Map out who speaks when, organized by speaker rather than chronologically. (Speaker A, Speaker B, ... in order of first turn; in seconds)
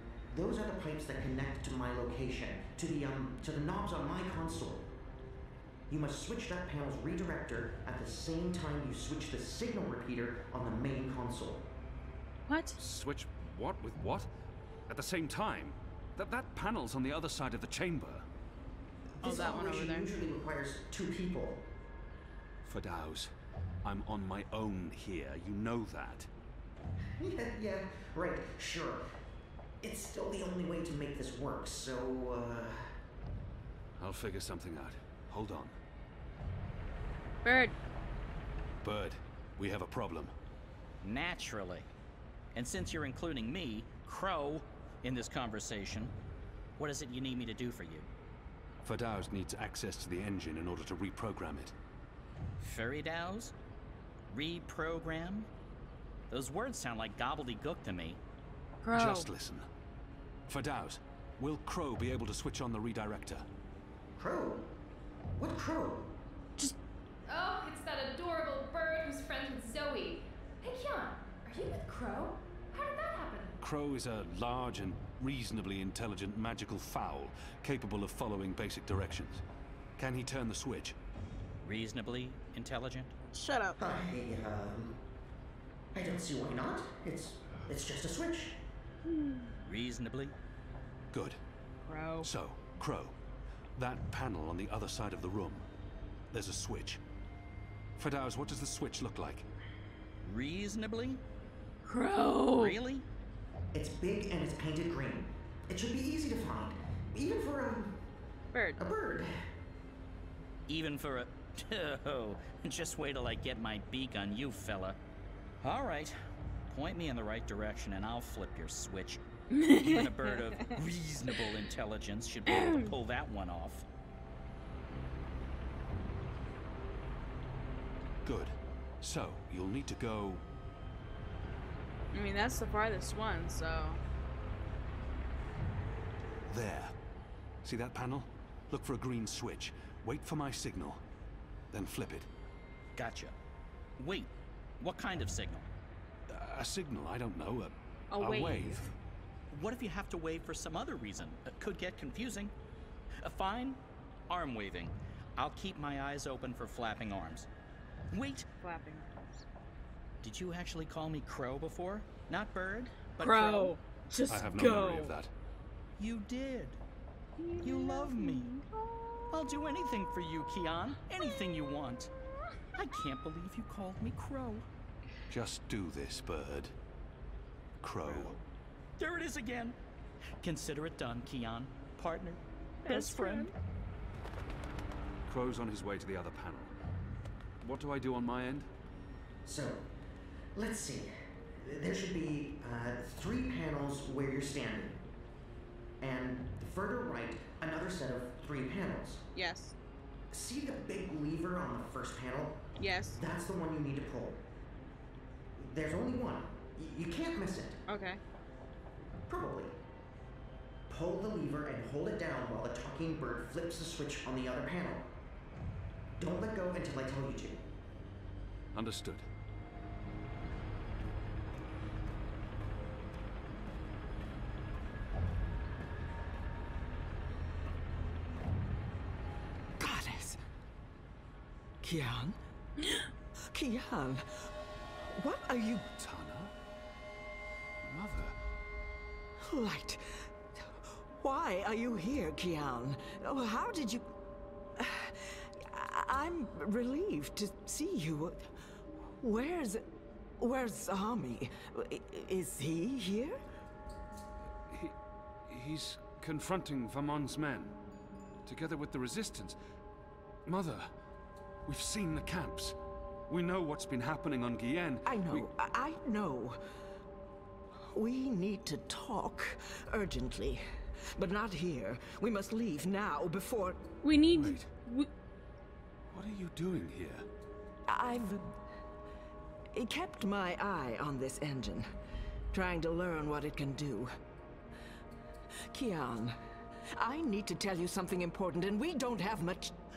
Speaker A: 0.3-4.9, 5.9-11.7, 19.2-21.7, 27.2-29.1, 29.8-32.9, 64.2-64.7, 65.3-66.1, 83.8-85.0, 85.9-88.6, 103.7-108.0, 108.8-109.4, 189.4-189.8, 190.5-195.0, 196.0-199.2, 200.3-204.4, 205.6-207.8, 209.3-209.7, 210.9-215.1, 216.2-217.6
Speaker B: 12.5-12.8, 19.2-20.1, 37.4-37.8, 58.8-59.3, 83.3-83.8, 89.1-89.5, 91.9-92.3, 101.8-102.8, 108.5-108.8, 119.5-120.7, 122.5-122.9, 132.1-134.0, 148.1-148.9, 158.6-159.4, 163.2-165.2, 167.4-169.3, 182.8-183.5, 199.3-199.7, 202.8-203.2, 207.9-208.2, 274.0-275.1
Speaker C: 12.8-14.3, 14.9-18.2, 22.6-23.3, 23.8-26.3, 34.0-35.8, 38.8-40.3, 48.8-51.7, 58.9-59.7, 60.5-63.5, 73.6-79.4, 80.0-81.0, 91.1-91.4, 92.2-93.2, 93.8-95.7, 96.3-97.0, 98.0-99.5, 128.2-130.4, 136.5-136.9, 137.6-141.0, 141.7-142.3, 146.3-148.9, 164.3-165.3, 175.3-176.7, 177.8-178.4, 185.3-186.7, 187.6-188.7, 218.7-219.3, 235.9-236.5, 237.8-238.4, 254.7-254.9, 255.5-257.8, 258.4-259.6, 260.4-260.9, 261.6-262.8, 263.3-265.5, 274.3-274.7, 276.1-277.3
Speaker D: 41.0-41.9, 42.5-46.1, 46.8-48.1, 52.6-53.5, 54.3-55.5, 56.3-58.2, 81.6-83.1, 89.6-90.3, 100.2-101.2, 102.5-103.0, 110.7-115.0, 115.6-116.2, 116.7-123.8, 142.9-143.3, 144.0-145.7, 149.5-152.5, 153.2-157.5, 158.1-158.5, 160.2-163.8, 166.0-166.8, 167.6-168.5, 169.3-172.1, 172.7-174.7, 179.0-179.8, 180.4-183.5
Speaker E: 67.2-73.5
Speaker F: 229.8-230.4, 231.8-232.4, 233.5-235.9, 239.4-244.1, 244.8-248.4, 248.9-249.8, 250.4-253.4, 265.0-266.6, 267.9-270.6, 271.1-273.9, 277.9-278.6, 279.7-281.9, 282.5-284.1, 285.7-286.4, 286.9-289.7